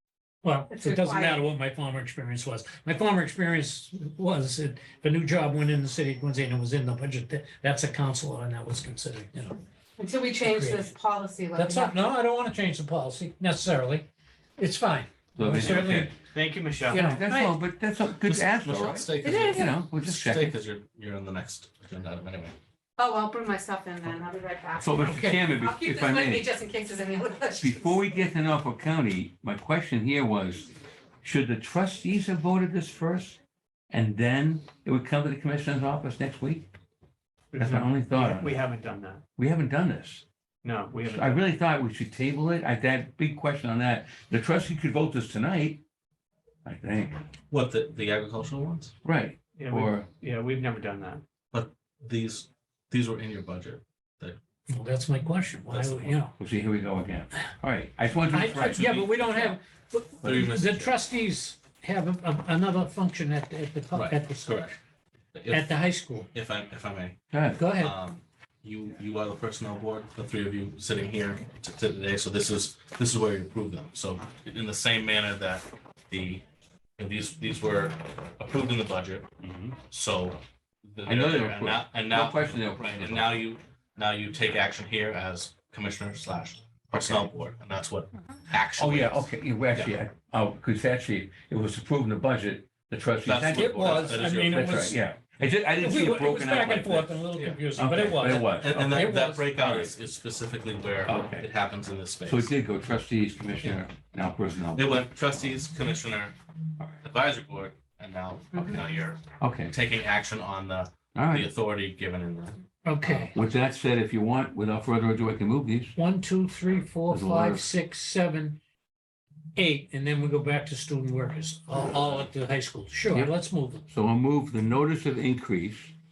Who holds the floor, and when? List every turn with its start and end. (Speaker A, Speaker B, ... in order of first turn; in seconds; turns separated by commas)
Speaker A: 0.4-9.6, Speaker B: 0.7-1.4, Speaker B: 10.0-12.1, Speaker A: 10.4-10.9, Speaker A: 11.6-16.1, Speaker C: 15.4-16.1, Speaker D: 16.3-17.0, Speaker C: 16.9-20.6, Speaker A: 16.9-17.5, Speaker E: 18.2-22.6, Speaker B: 19.2-19.8, Speaker B: 23.0-27.9, Speaker C: 24.8-26.5, Speaker C: 27.6-30.7, Speaker C: 31.2-33.4, Speaker C: 33.9-36.7, Speaker D: 37.5-39.2, Speaker C: 37.6-38.6, Speaker C: 39.4-40.2, Speaker D: 40.6-41.4, Speaker C: 41.1-45.8, Speaker C: 46.6-47.2, Speaker E: 47.5-48.9, Speaker C: 49.0-50.1, Speaker D: 49.6-51.2, Speaker E: 51.5-54.4, Speaker A: 54.7-56.4, Speaker E: 55.7-56.2, Speaker C: 56.4-59.0, Speaker A: 58.3-64.8, Speaker E: 58.4-59.6, Speaker E: 60.2-61.0, Speaker E: 63.9-64.8, Speaker E: 65.3-65.8, Speaker A: 65.5-66.3, Speaker E: 66.3-67.2, Speaker C: 67.3-67.6, Speaker A: 67.6-68.0, Speaker E: 67.7-76.4, Speaker E: 77.0-79.3, Speaker C: 79.4-79.8, Speaker E: 79.8-90.0, Speaker C: 81.1-83.5, Speaker C: 86.9-87.2, Speaker C: 88.8-99.0, Speaker E: 93.2-95.0, Speaker A: 93.5-95.0, Speaker A: 95.8-99.5, Speaker E: 98.5-102.5, Speaker C: 99.6-99.9, Speaker C: 101.1-101.5, Speaker C: 102.2-105.1, Speaker E: 104.8-106.4, Speaker E: 107.0-113.2, Speaker B: 108.5-108.8, Speaker C: 109.4-109.8, Speaker C: 111.2-111.5, Speaker A: 112.8-113.3, Speaker C: 113.1-116.0, Speaker A: 116.0-118.6, Speaker C: 117.1-117.7, Speaker A: 119.5-123.9, Speaker C: 123.9-125.9